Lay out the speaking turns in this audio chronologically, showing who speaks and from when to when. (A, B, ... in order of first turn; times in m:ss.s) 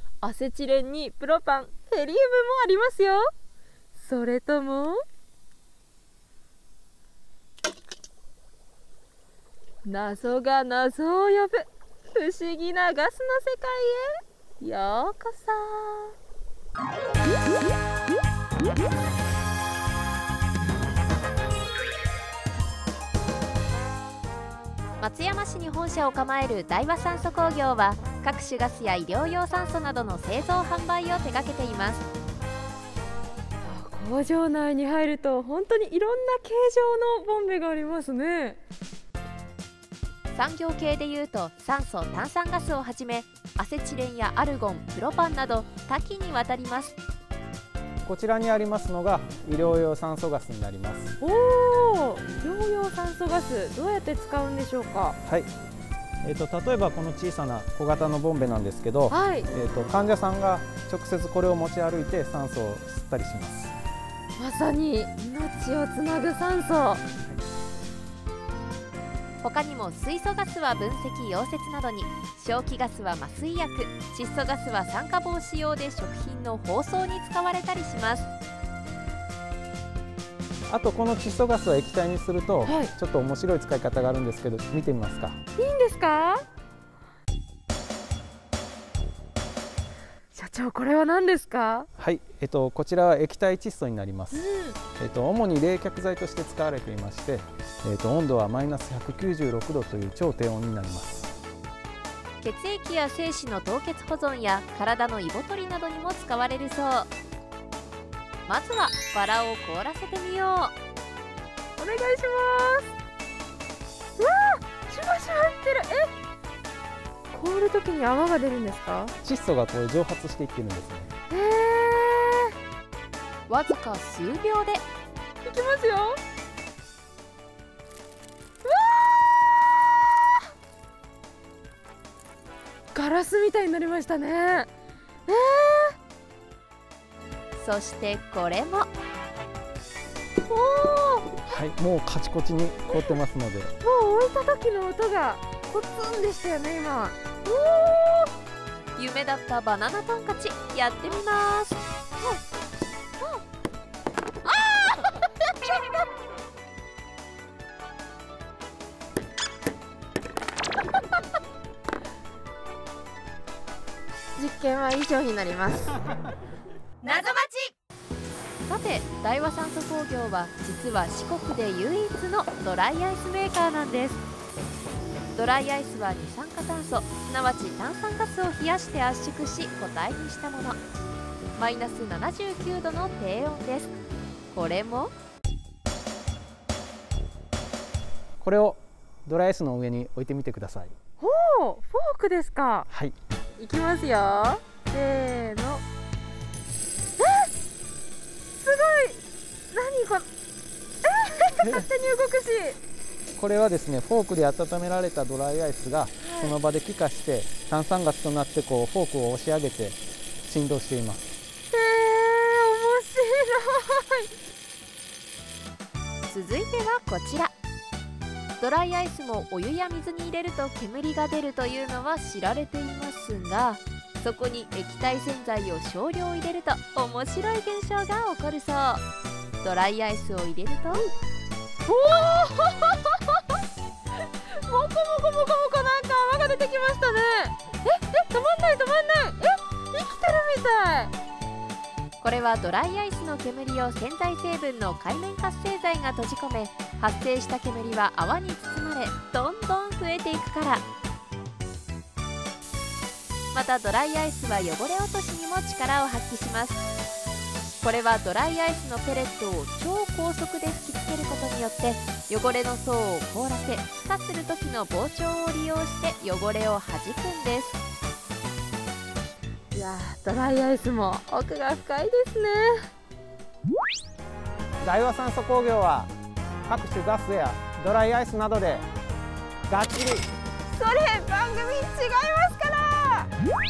0:00.2-0:03.3 A
0:03.9-0:05.0 A
0:09.8-0:16.1 A
0:25.0-0:32.0 B
0:33.6-0:38.6 A
0:40.3-0:47.0 B
0:48.0-0:51.2 C
0:51.2-0:55.2 A
0:55.2-0:55.5 C
0:56.2-1:03.8 C
0:59.1-0:59.5 A
1:04.4-1:07.0 A
1:09.4-1:18.3 B
1:20.7-1:25.4 C
1:22.6-1:22.9 A
1:25.6-1:26.4 A
1:30.3-1:31.9 A
1:32.0-1:34.5 C
1:34.3-1:34.8 A
1:35.0-1:41.3 C
1:42.4-1:47.1 B
1:48.5-1:50.7 B
1:51.8-1:52.9 A
1:54.2-1:56.1 A
1:57.3-1:59.2 A
1:59.2-2:01.1 C
2:01.3-2:02.6 A
2:03.5-2:04.8 B
2:05.4-2:06.2 A
2:08.6-2:09.9 A
2:12.9-2:14.7 A
2:15.3-2:16.0 A
2:17.6-2:18.9 B
2:20.5-2:21.4 A
2:21.5-2:23.7 C
2:23.8-2:28.3 A
2:29.0-2:31.8 B
2:34.4-2:36.0 A
2:44.4-2:46.0 A
2:47.0-2:47.7 B
2:48.6-2:54.2 B
2:55.3-3:00.8 B
3:01.6-3:04.0 B
3:04.5-3:05.1 B
3:08.4-3:10.9 C
3:11.2-3:12.9 A
3:12.9-3:13.2 C
3:13.6-3:15.8 A
3:17.2-3:17.5 A
3:18.6-3:20.3 A
3:21.0-3:22.8 A
3:21.6-3:21.9 C
3:23.4-3:31.3 C
3:26.2-3:26.6 A
3:31.7-3:34.3 A
3:36.3-3:37.5 B
3:38.6-3:49.0 B
3:49.6-3:51.0 B
3:51.9-3:53.6 A
3:54.5-4:01.1 A
4:02.2-4:10.8 B
4:13.5-4:16.9 B
4:17.8-4:27.8 B
4:29.7-4:32.9 A
4:34.8-4:36.1 C
4:36.6-4:38.9 C
4:39.7-4:40.3 C
4:40.7-4:43.3 A